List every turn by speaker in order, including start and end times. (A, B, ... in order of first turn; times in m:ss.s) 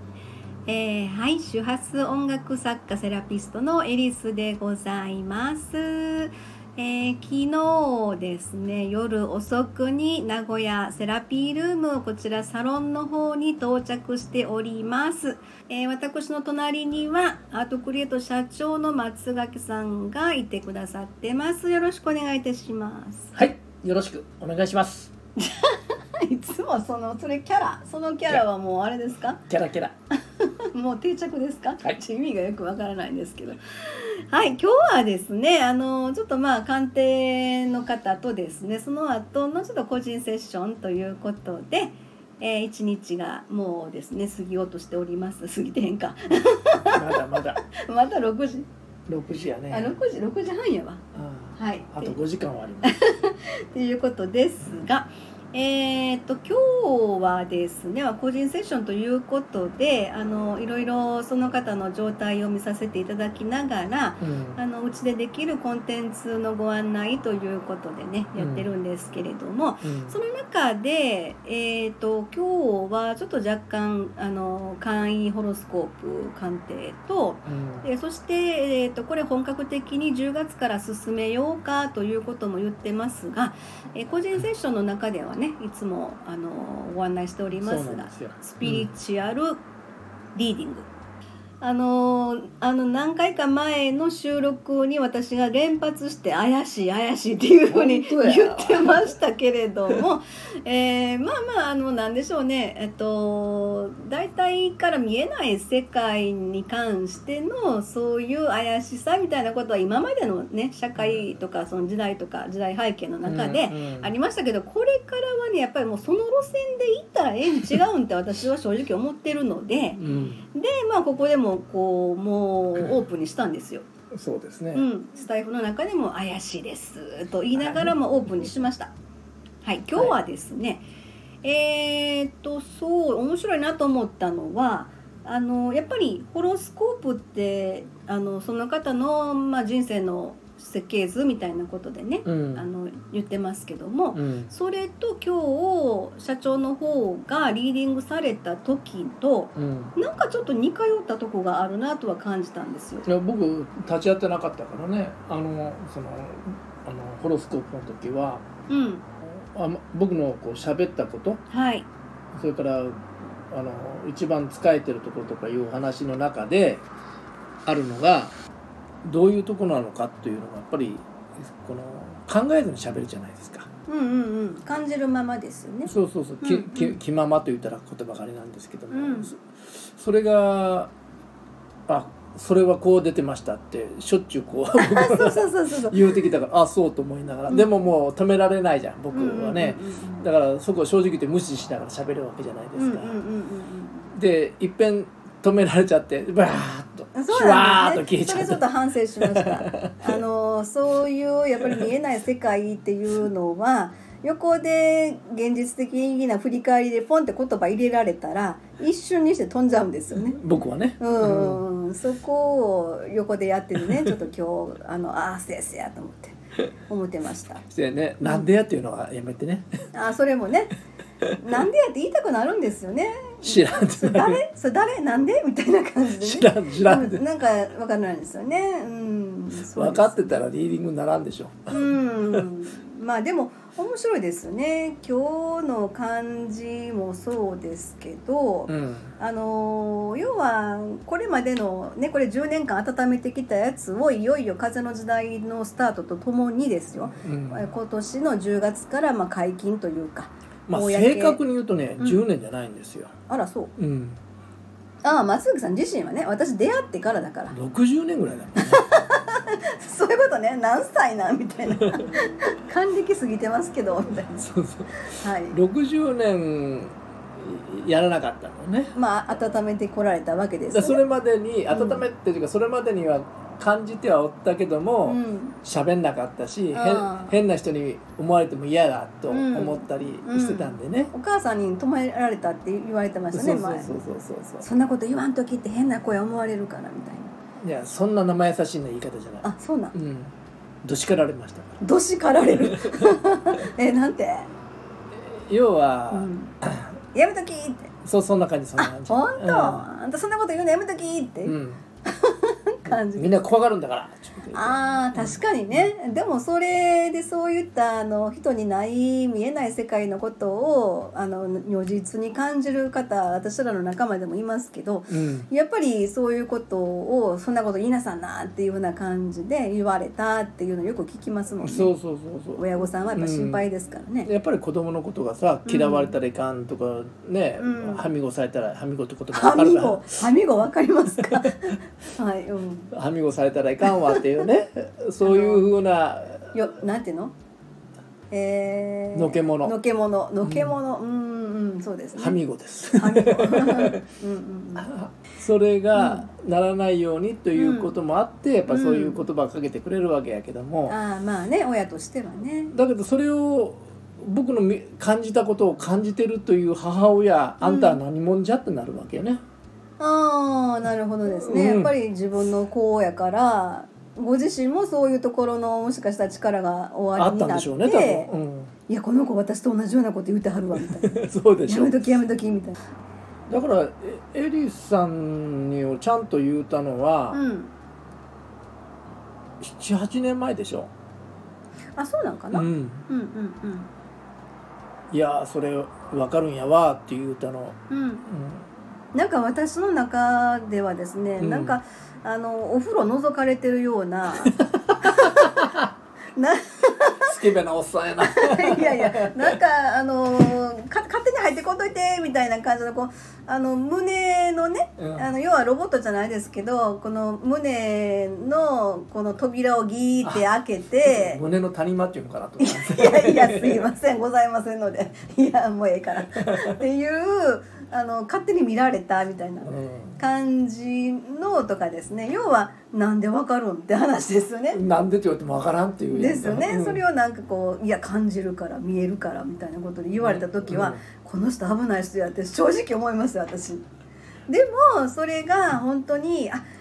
0:00.6-0:23.3 A
0:23.3-0:25.1 B
0:25.4-0:29.4 A
0:29.5-0:29.9 B
0:30.4-0:48.7 A
0:46.9-0:47.6 B
0:49.1-0:49.9 B
0:49.7-0:51.0 A
0:51.1-0:53.0 B
0:51.6-0:52.2 A
0:52.8-1:29.6 A
1:04.2-1:04.6 B
1:08.4-1:08.7 B
1:09.8-1:10.1 B
1:17.4-1:17.8 B
1:27.5-1:28.9 B
1:30.3-1:30.9 A
1:31.6-2:00.0 A
1:37.7-1:39.1 B
1:51.0-1:51.2 B
1:53.2-1:54.1 B
2:00.0-2:00.4 B
2:00.5-2:03.9 A
2:04.1-2:04.8 B
2:04.7-2:08.9 A
2:07.5-2:07.9 B
2:09.6-2:10.8 A
2:11.4-2:33.1 A
2:22.2-2:22.6 B
2:24.1-2:24.5 B
2:29.6-2:29.9 B
2:33.0-2:38.4 B
2:38.7-2:39.0 A
2:39.2-2:41.4 B
2:41.5-2:41.9 A
2:42.3-2:46.8 B
2:47.6-2:48.3 B
2:49.0-2:53.7 B
2:53.9-2:57.0 A
2:55.8-3:00.9 B
2:58.9-2:59.3 A
3:01.9-3:13.2 B
3:04.8-3:06.3 A
3:09.1-3:10.2 A
3:12.8-3:14.1 A
3:14.1-3:20.2 B
3:17.1-3:30.4 A
3:30.1-3:31.6 B
3:31.0-3:37.6 A
3:33.8-3:34.2 B
3:37.7-3:39.8 B
3:38.2-3:38.5 A
3:39.9-3:40.7 A
3:41.4-3:50.4 A
3:43.4-3:44.4 B
3:46.2-3:47.2 B
3:49.6-3:52.5 B
3:51.7-4:11.4 A
3:58.7-3:59.1 B
4:07.2-4:07.7 B
4:10.7-4:13.1 B
4:13.3-4:13.7 A
4:13.8-4:14.2 B
4:15.0-4:17.6 A
4:17.5-4:18.8 B
4:18.6-4:24.4 A
4:21.7-4:22.1 B
4:24.3-4:28.9 B
4:25.0-4:25.6 A
4:28.9-4:31.0 A
4:30.7-4:41.1 B
4:31.7-4:32.0 A
4:35.0-4:35.6 A
4:36.7-4:37.4 A
4:39.3-4:43.9 A
4:43.3-4:44.6 B
4:44.6-4:47.3 A
4:47.6-4:50.3 B
4:49.4-4:49.9 A
4:50.8-4:51.8 B
4:51.8-4:54.5 A
4:52.6-4:53.2 B
4:55.1-4:56.9 B
4:56.1-4:56.6 A
4:57.1-4:57.9 A
4:58.0-4:59.9 B
4:58.8-5:03.4 A
5:01.4-5:01.8 B
5:02.8-5:05.9 B
5:04.5-5:21.9 A
5:15.1-5:15.5 B
5:21.6-5:23.6 B
5:22.6-5:24.3 A
5:24.2-5:30.2 B
5:25.6-5:26.1 A
5:27.6-5:28.1 A
5:29.3-5:32.9 A
5:31.2-5:31.8 B
5:32.9-5:36.7 B
5:34.0-5:34.4 A
5:35.2-5:35.7 A
5:36.5-5:37.3 A
5:38.3-5:42.4 A
5:39.1-5:39.8 B
5:40.4-5:40.8 B
5:42.2-5:44.0 B
5:42.9-5:44.9 A
5:44.8-5:51.0 B
5:45.9-5:46.3 A
5:47.5-5:48.0 A
5:48.7-5:49.2 A
5:50.9-5:52.7 A
5:52.7-5:59.4 B
5:57.6-5:58.0 A
6:00.0-6:08.3 A
6:01.3-6:01.9 B
6:07.2-6:08.7 B
6:08.9-6:12.8 A
6:10.9-6:12.1 B
6:13.5-6:17.4 B
6:17.3-6:17.7 A
6:19.6-6:20.9 B
6:22.0-6:23.9 A
6:22.5-6:23.0 B
6:25.1-6:28.7 B
6:27.9-6:28.2 A
6:29.1-6:35.7 A
6:31.4-6:31.8 B
6:35.2-6:35.8 B
6:36.4-6:37.3 A
6:37.2-6:39.6 B
6:38.2-6:51.4 A
6:45.0-6:45.2 B
6:51.0-6:53.8 B
6:52.6-7:04.8 A
6:56.3-6:56.7 B
6:59.6-7:00.2 B
7:04.7-7:07.0 B
7:06.1-7:13.8 A
7:10.2-7:11.0 B
7:14.5-7:16.6 A